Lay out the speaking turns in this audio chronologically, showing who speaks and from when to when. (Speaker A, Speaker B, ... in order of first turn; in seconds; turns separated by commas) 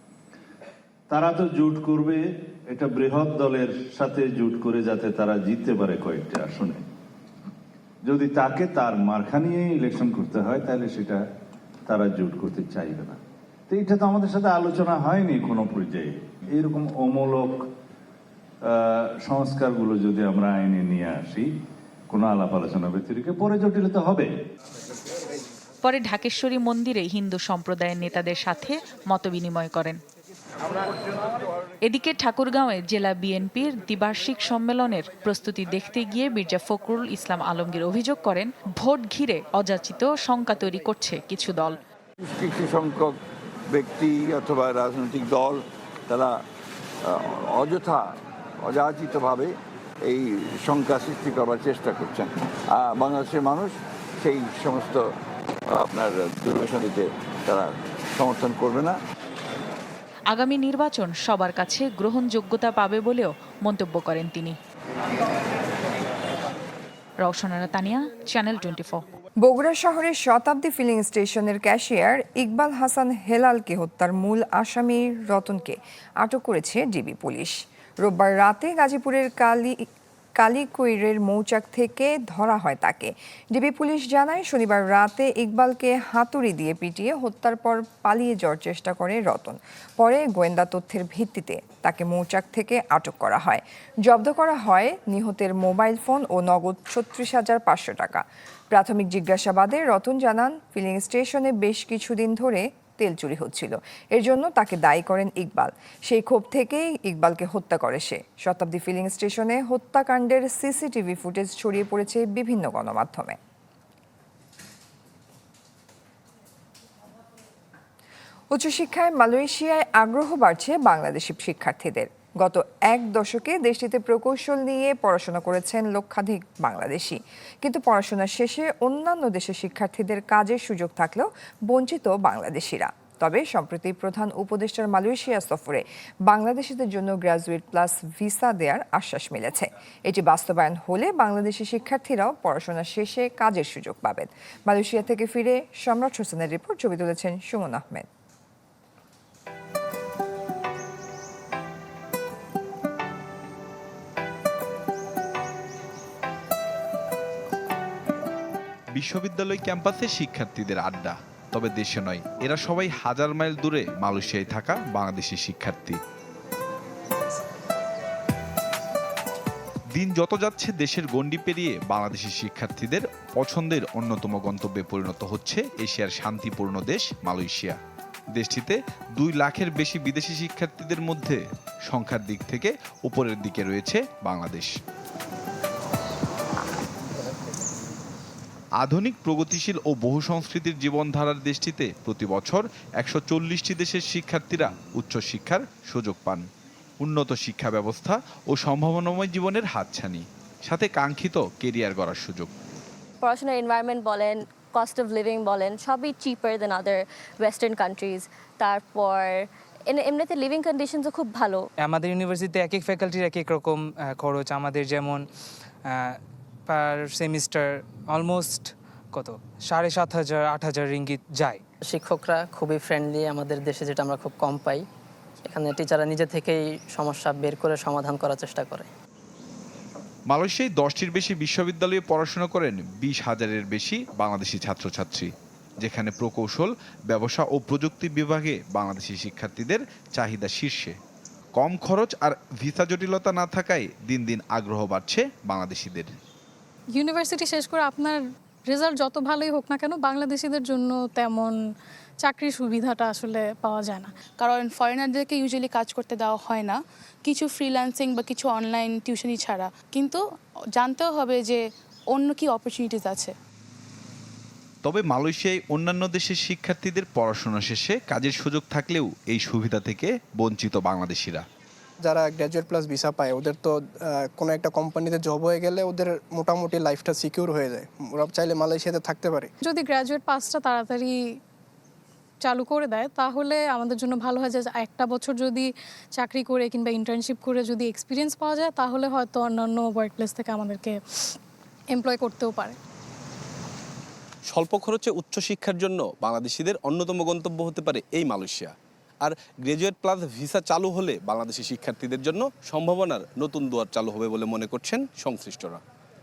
Speaker A: 1.1-6.8, Speaker A: 8.1-11.2, Speaker A: 11.9-13.2, Speaker A: 13.7-17.6, Speaker A: 19.2-21.5, Speaker A: 22.1-24.3, Speaker B: 25.8-30.0, Speaker B: 31.8-41.8, Speaker C: 42.4-43.1, Speaker C: 43.8-45.5, Speaker C: 47.6-48.0, Speaker C: 48.7-49.4, Speaker C: 50.1-52.2, Speaker C: 53.0-53.7, Speaker C: 54.2-55.0, Speaker C: 55.8-57.0, Speaker C: 58.2-58.9, Speaker B: 60.3-64.6, Speaker B: 67.2-69.0, Speaker D: 69.4-79.8, Speaker D: 80.4-113.4, Speaker D: 118.5-148.1, Speaker E: 158.9-166.0, Speaker E: 169.9-177.8, Speaker E: 178.3-184.7, Speaker E: 188.8-196.4, Speaker E: 197.0-202.5, Speaker F: 203.2-211.7, Speaker G: 211.8-215.2, Speaker G: 216.7-221.6, Speaker H: 221.9-224.8, Speaker H: 225.5-228.8, Speaker E: 230.3-240.9, Speaker E: 241.6-246.1, Speaker I: 247.0-248.1, Speaker I: 248.7-251.5, Speaker I: 252.2-254.0, Speaker J: 254.4-260.2, Speaker J: 260.8-263.3, Speaker E: 264.8-271.4, Speaker K: 272.0-279.5, Speaker I: 279.7-281.1, Speaker I: 282.6-285.6, Speaker I: 286.2-290.9, Speaker I: 291.9-292.7, Speaker L: 294.5-298.7, Speaker L: 299.2-305.8